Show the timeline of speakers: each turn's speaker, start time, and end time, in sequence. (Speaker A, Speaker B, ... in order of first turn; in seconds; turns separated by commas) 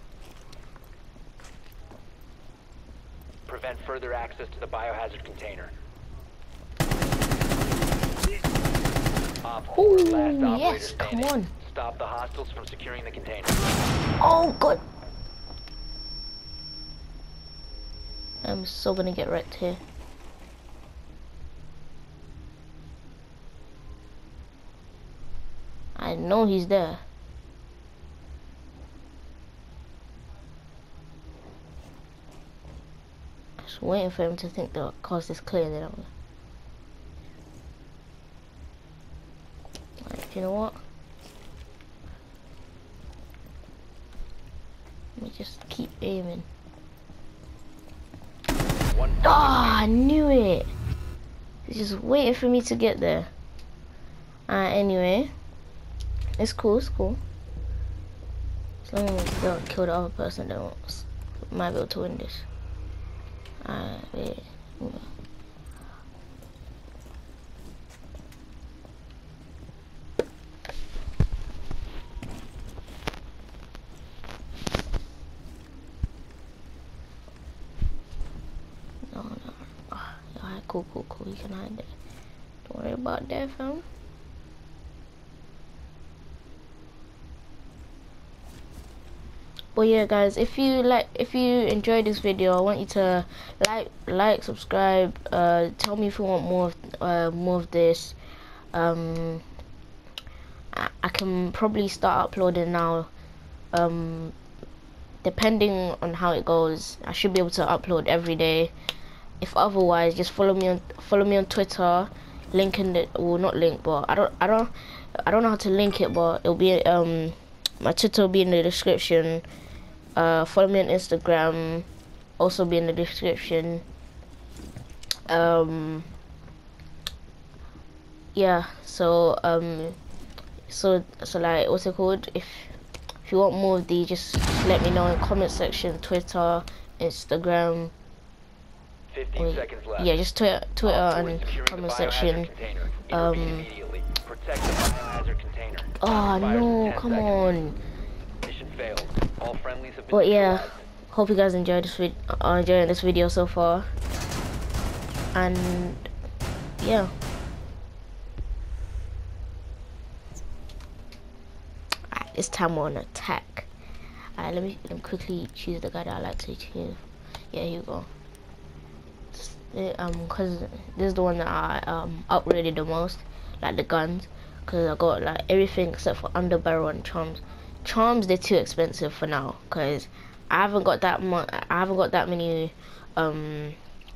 Speaker A: 3.5-5.7, Speaker A: 9.4-13.7, Speaker B: 9.7-11.5, Speaker B: 14.2-14.8, Speaker B: 18.4-19.8, Speaker B: 25.9-27.0, Speaker B: 33.6-36.1, Speaker B: 40.0-40.8, Speaker B: 45.2-46.5, Speaker A: 48.9-49.8, Speaker B: 49.2-50.7, Speaker B: 51.6-53.3, Speaker B: 54.5-55.3, Speaker B: 56.4-57.2, Speaker B: 58.8-62.5, Speaker B: 63.6-65.1, Speaker B: 79.1-81.9, Speaker B: 82.6-83.9, Speaker B: 89.7-98.2, Speaker B: 98.7-99.5, Speaker B: 100.7-103.1, Speaker B: 103.7-104.3, Speaker B: 105.2-108.7, Speaker B: 109.4-119.4, Speaker B: 120.2-121.8, Speaker B: 122.4-123.8, Speaker B: 125.3-126.1, Speaker B: 128.3-130.0, Speaker B: 130.7-137.9, Speaker A: 139.1-140.1, Speaker B: 139.3-142.5, Speaker A: 140.8-147.4, Speaker B: 143.1-143.7, Speaker B: 146.0-147.8, Speaker A: 148.4-150.8, Speaker B: 150.1-153.9, Speaker B: 155.3-156.1, Speaker B: 156.8-157.1, Speaker B: 162.1-163.7, Speaker B: 164.4-168.1, Speaker B: 169.3-183.8